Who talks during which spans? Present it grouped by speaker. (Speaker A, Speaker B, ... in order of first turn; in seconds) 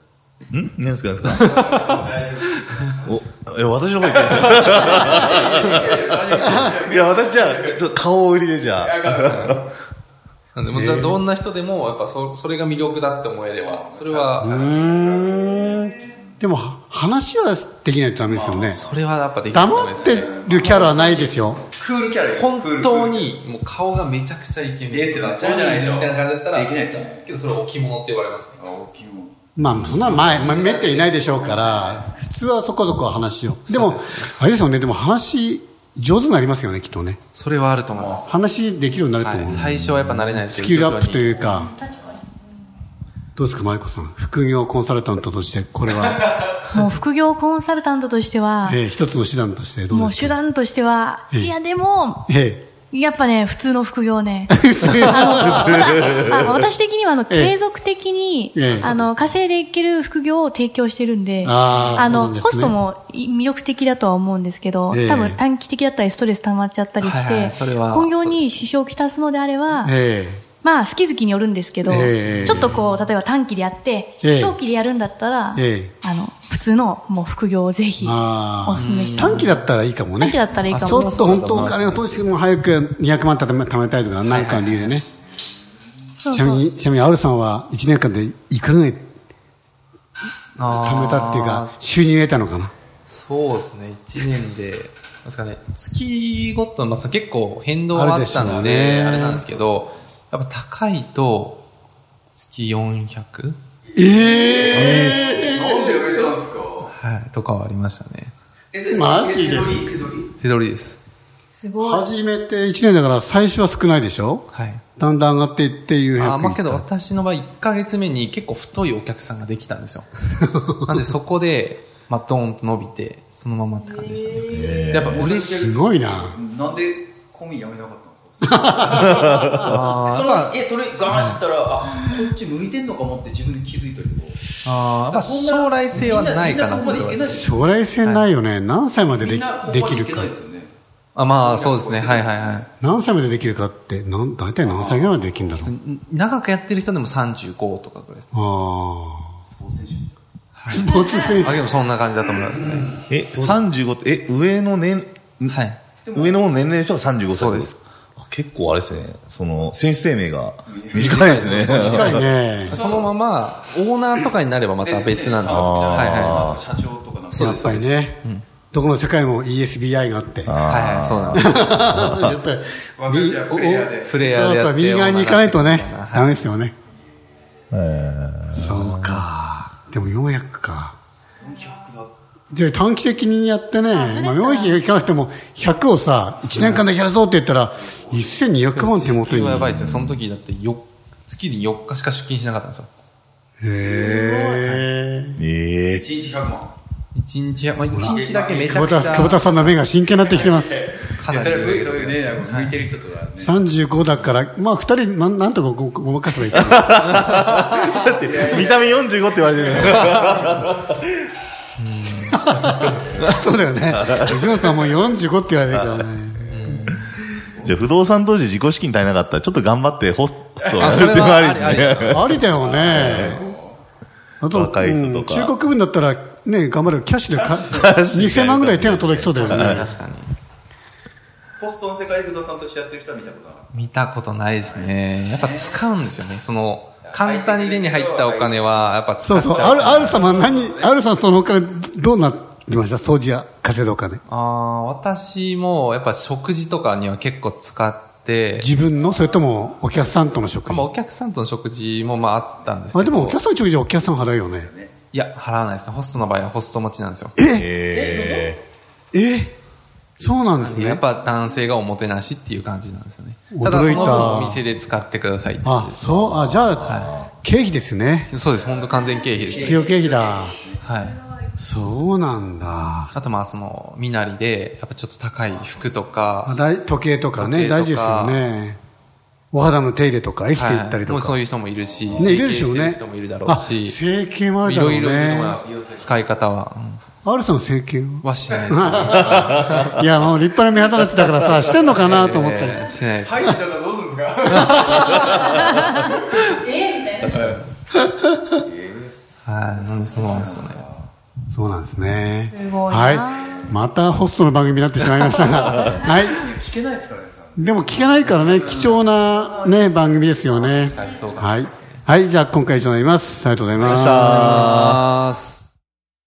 Speaker A: 0.5-1.4, 3.0-9.5, 29.7-30.3, 81.3-82.0, 124.6-125.1, 153.1-155.6, 156.2-157.7, 158.2-162.3, 165.5-166.6, 170.4-172.3, 177.7-179.2, 195.4-196.0, 206.8-210.8, 215.7-216.0, 217.6-222.3, 223.0-223.3, 224.5-225.5, 227.9-229.8, 257.5-258.6, 266.2-267.1, 313.8-315.0
Speaker B: 1.2-2.0, 4.6-5.3, 9.2-9.6, 10.5-14.7, 18.7-21.4, 22.3-28.6, 33.7-34.3, 37.3-38.3, 39.2-41.6, 58.6-59.1, 61.7-62.2, 67.0-68.6, 72.2-73.0, 78.7-79.6, 84.2-85.0, 90.6-91.7, 93.0-101.6, 102.4-103.6, 106.8-108.3, 110.4-111.0, 114.5-114.8, 116.2-120.1, 120.8-125.7, 129.6-131.4, 134.6-137.5, 141.1-142.7, 145.6-148.3, 150.5-152.9, 155.5-155.8, 157.3-157.8, 161.1-166.6, 167.3-168.4, 170.7-171.8, 174.0-176.4, 186.5-186.8, 188.7-192.9, 194.6-194.9, 197.1-199.8, 201.1-202.8, 207.2-207.9, 211.8-213.4, 216.5-217.0, 220.8-222.3, 229.4-230.3, 233.7-240.3, 244.3-248.7, 250.7-253.4, 255.1-257.4, 260.6-266.2, 266.8-267.1, 268.3-269.8, 270.8-271.2, 273.1-276.6, 277.4-278.4, 280.5-284.0, 284.6-287.0, 288.2-290.0, 292.0-293.5, 294.4-297.7, 299.4-300.8, 305.2-305.5, 310.5-312.0, 314.2-315.7
Speaker C: 1.4-3.2, 4.0-8.0, 8.6-9.7, 13.5-16.1, 18.3-18.8, 19.9-20.9, 21.7-23.3, 24.9-27.3, 28.6-29.3, 30.0-32.1, 37.9-38.2, 98.3-99.0, 104.0-106.9, 108.7-110.3, 125.0-134.4, 135.1-137.5, 139.2-140.7, 141.3-142.7, 144.6-145.1, 149.4-150.2, 156.0-156.7, 160.7-162.1, 162.7-163.1, 164.8-167.8, 173.0-174.1, 181.4-182.1, 187.8-188.4, 193.8-194.1, 195.9-196.7, 198.1-199.3, 200.1-203.6, 207.9-210.5, 220.6-221.1, 222.4-223.8, 227.5-227.9, 231.6-233.7, 234.6-235.8, 237.0-238.8, 239.5-240.9, 249.0-249.4, 252.0-252.7, 254.3-254.9, 257.9-258.6, 263.9-264.4, 268.4-270.8, 275.4-276.2, 281.8-282.4, 285.4-286.2, 289.1-289.8, 291.5-291.9, 293.1-296.5, 297.3-297.6, 298.6-301.1, 303.4-303.9, 305.9-310.3
Speaker D: 6.4-6.7, 10.7-11.2, 14.4-18.8, 19.5-21.6, 29.6-37.2, 38.2-39.8, 40.4-41.7, 43.4-46.3, 48.6-50.4, 52.3-52.6, 54.5-55.9, 57.3-57.6, 58.5-59.1, 61.4-62.8, 64.9-65.4, 69.8-70.4, 71.8-72.8, 74.2-74.6, 75.5-75.9, 78.0-85.0, 86.3-89.1, 90.6-92.7, 97.9-99.4, 103.9-106.0, 108.9-109.9, 111.8-116.8, 120.4-120.8, 125.5-126.4, 128.4-129.5, 137.3-140.3, 142.8-145.7, 148.3-149.3, 150.7-151.7, 153.3-153.6, 160.9-162.8, 167.3-168.2, 168.7-176.7, 178.5-180.9, 182.5-190.0, 193.6-195.4, 197.9-200.8, 203.4-207.3, 212.5-217.0, 222.1-223.6, 224.4-229.8, 239.2-244.2, 248.6-250.9, 252.9-254.7, 257.4-257.7, 259.1-259.5, 260.2-261.0, 263.5-264.6, 265.6-268.3, 269.5-270.6, 271.6-273.1, 276.4-278.8, 279.5-281.4, 282.1-285.6, 287.2-292.9, 297.9-298.6, 301.5-306.4, 307.6-314.9
Speaker E: 41.5-42.3, 46.7-48.8, 49.9-52.3, 52.9-69.9, 70.6-79.5, 80.2-81.4, 86.2-86.6, 111.6-112.1, 124.3-124.8, 183.9-184.8, 194.1-194.6, 296.5-297.4, 302.5-303.6